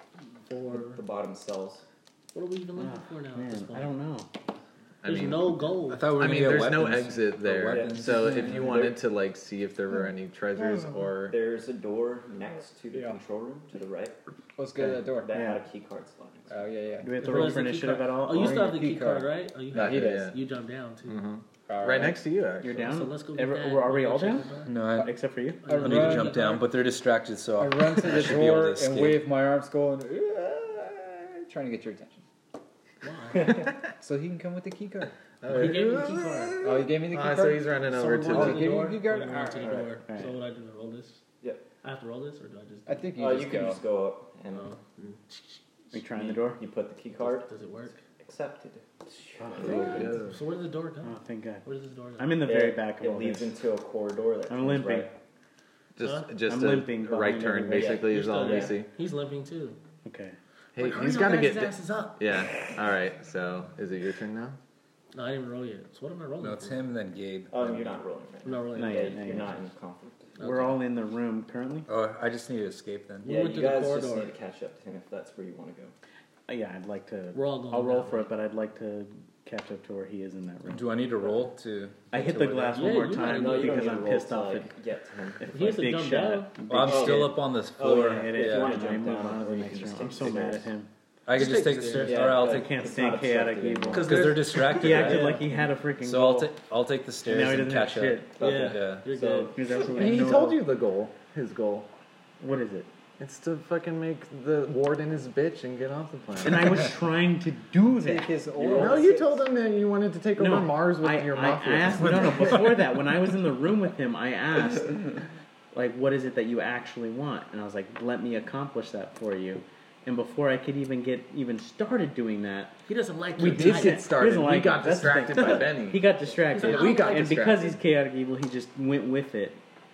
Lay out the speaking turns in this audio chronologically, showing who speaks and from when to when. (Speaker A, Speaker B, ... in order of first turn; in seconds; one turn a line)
Speaker A: 0.5-1.0
Speaker B: 0.7-1.8
Speaker A: 2.3-3.9
Speaker C: 2.8-4.3
Speaker D: 5.0-11.3
Speaker A: 5.0-6.1
Speaker E: 5.9-8.7
Speaker B: 7.7-8.9
Speaker F: 8.2-8.7
Speaker B: 11.2-14.2
Speaker F: 14.6-15.4
Speaker B: 14.8-16.6
Speaker C: 15.3-15.6
Speaker F: 16.5-17.6
Speaker C: 17.0-18.7
Speaker A: 17.2-21.2
Speaker F: 18.3-20.3
Speaker D: 19.7-20.5
Speaker D: 21.0-22.9
Speaker F: 21.7-22.2
Speaker C: 22.6-24.5
Speaker A: 22.8-24.8
Speaker E: 24.6-25.1
Speaker C: 25.0-25.6
Speaker A: 25.6-26.7
Speaker F: 25.7-26.5
Speaker E: 25.8-29.2
Speaker F: 27.6-32.2
Speaker A: 33.0-33.6
Speaker F: 33.9-35.1
Speaker D: 35.4-38.9
Speaker A: 35.5-36.7
Speaker F: 36.6-39.8
Speaker A: 37.9-41.2
Speaker B: 39.6-39.9
Speaker A: 41.8-43.2
Speaker F: 42.9-43.8
Speaker B: 43.1-44.7
Speaker A: 44.5-45.6
Speaker C: 45.9-46.6
Speaker B: 46.2-50.1
Speaker A: 47.2-48.0
Speaker C: 49.4-49.8
Speaker D: 49.6-50.4
Speaker A: 49.6-52.4
Speaker C: 51.0-51.6
Speaker C: 52.2-53.5
Speaker B: 52.4-55.1
Speaker C: 54.5-55.1
Speaker D: 56.0-58.9
Speaker A: 56.0-56.4
Speaker C: 56.5-58.5
Speaker B: 57.7-58.7
Speaker A: 58.0-59.8
Speaker C: 60.0-60.4
Speaker D: 60.7-64.6
Speaker A: 60.8-62.3
Speaker A: 65.1-66.8
Speaker E: 66.4-68.0
Speaker B: 67.5-70.2
Speaker A: 68.4-69.5
Speaker C: 68.7-69.5
Speaker A: 70.4-70.8
Speaker C: 70.4-71.9
Speaker E: 71.9-73.3
Speaker A: 73.2-74.3
Speaker B: 73.2-75.9
Speaker C: 76.5-81.0
Speaker A: 77.3-78.3
Speaker E: 80.7-82.9
Speaker C: 82.1-84.7
Speaker A: 82.7-84.0
Speaker B: 83.1-85.7
Speaker C: 85.4-90.9
Speaker A: 85.5-86.6
Speaker E: 86.7-88.9
Speaker B: 86.8-90.7
Speaker E: 91.3-92.8
Speaker A: 91.3-92.3
Speaker B: 91.9-94.3
Speaker C: 92.2-96.5
Speaker A: 93.9-95.4
Speaker E: 93.9-95.5
Speaker E: 96.0-99.1
Speaker C: 97.2-98.4
Speaker A: 98.4-99.9
Speaker B: 98.4-99.6
Speaker C: 99.5-100.6
Speaker D: 99.8-101.9
Speaker C: 102.4-102.9
Speaker D: 103.2-107.0
Speaker C: 106.4-108.9
Speaker F: 108.0-109.5
Speaker D: 108.6-112.6
Speaker C: 110.3-115.2
Speaker C: 115.7-122.7
Speaker A: 122.9-124.2
Speaker C: 123.4-129.6
Speaker D: 123.4-127.8
Speaker A: 125.4-125.7
Speaker A: 126.5-127.3